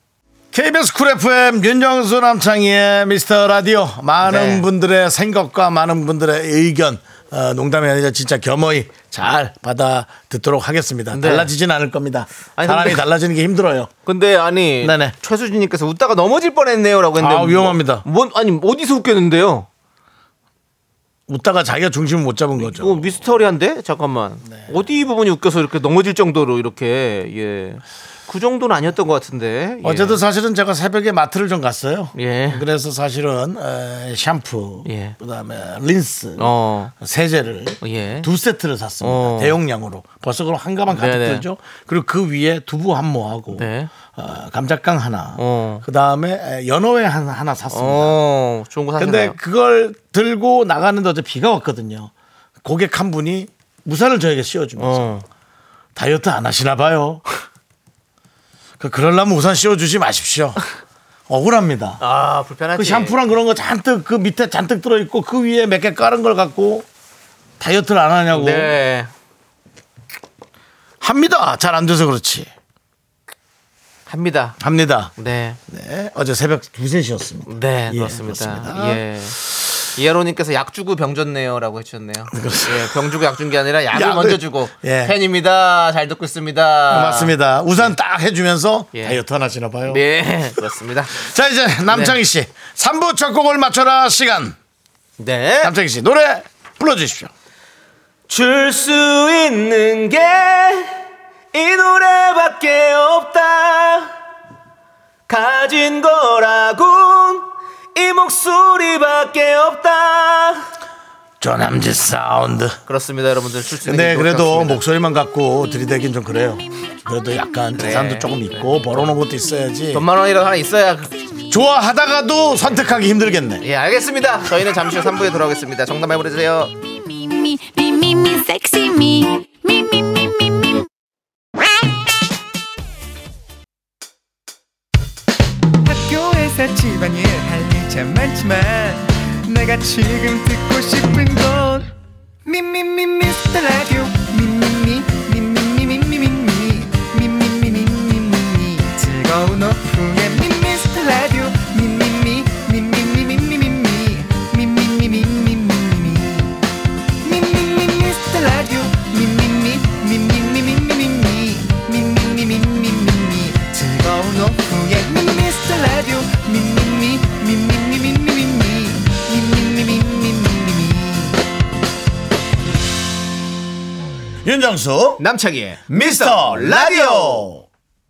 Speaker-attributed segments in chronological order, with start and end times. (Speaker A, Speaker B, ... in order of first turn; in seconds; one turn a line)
Speaker A: 0.5-13.9
Speaker B: 4.2-4.7
Speaker B: 11.1-11.5
Speaker B: 12.6-13.1
Speaker B: 14.1-19.7
Speaker A: 14.8-15.2
Speaker A: 17.2-18.0
Speaker A: 21.3-23.1
Speaker B: 22.6-30.2
Speaker A: 24.4-24.7
Speaker A: 29.8-48.2
Speaker B: 32.1-32.6
Speaker B: 34.8-35.1
Speaker B: 36.4-36.9
Speaker B: 37.8-38.3
Speaker B: 39.0-39.6
Speaker B: 40.9-41.4
Speaker B: 43.5-43.9
Speaker B: 45.4-45.8
Speaker B: 47.7-49.4
Speaker A: 49.0-52.1
Speaker A: 52.6-55.1
Speaker B: 54.8-55.2
Speaker A: 56.0-57.3
Speaker A: 58.8-60.6
Speaker A: 61.3-62.0
Speaker B: 62.0-63.1
Speaker A: 62.7-66.9
Speaker A: 67.6-68.7
Speaker B: 68.3-69.1
Speaker A: 71.0-72.5
Speaker B: 74.1-74.6
Speaker A: 74.6-75.1
Speaker B: 75.2-75.6
Speaker A: 75.7-79.0
Speaker B: 77.5-79.4
Speaker B: 79.9-87.9
Speaker A: 82.3-83.1
Speaker A: 83.9-85.2
Speaker A: 86.9-90.0
Speaker B: 88.9-89.2
Speaker B: 89.9-91.2
Speaker A: 91.1-94.5
Speaker B: 91.9-92.2
Speaker B: 95.2-95.7
Speaker A: 95.6-97.3
Speaker B: 98.3-101.0
Speaker B: 101.5-104.1
Speaker B: 105.3-110.7
Speaker A: 111.4-112.8
Speaker B: 112.8-114.8
Speaker A: 113.8-120.0
Speaker B: 117.8-119.1
Speaker B: 119.9-121.2
Speaker A: 121.5-123.6
Speaker B: 123.6-126.7
Speaker C: 127.1-130.7
Speaker D: 135.8-141.9
Speaker D: 142.4-156.6
Speaker D: 157.2-171.4
Speaker A: 174.4-175.2
Speaker B: 175.2-177.5
Speaker A: 175.9-177.6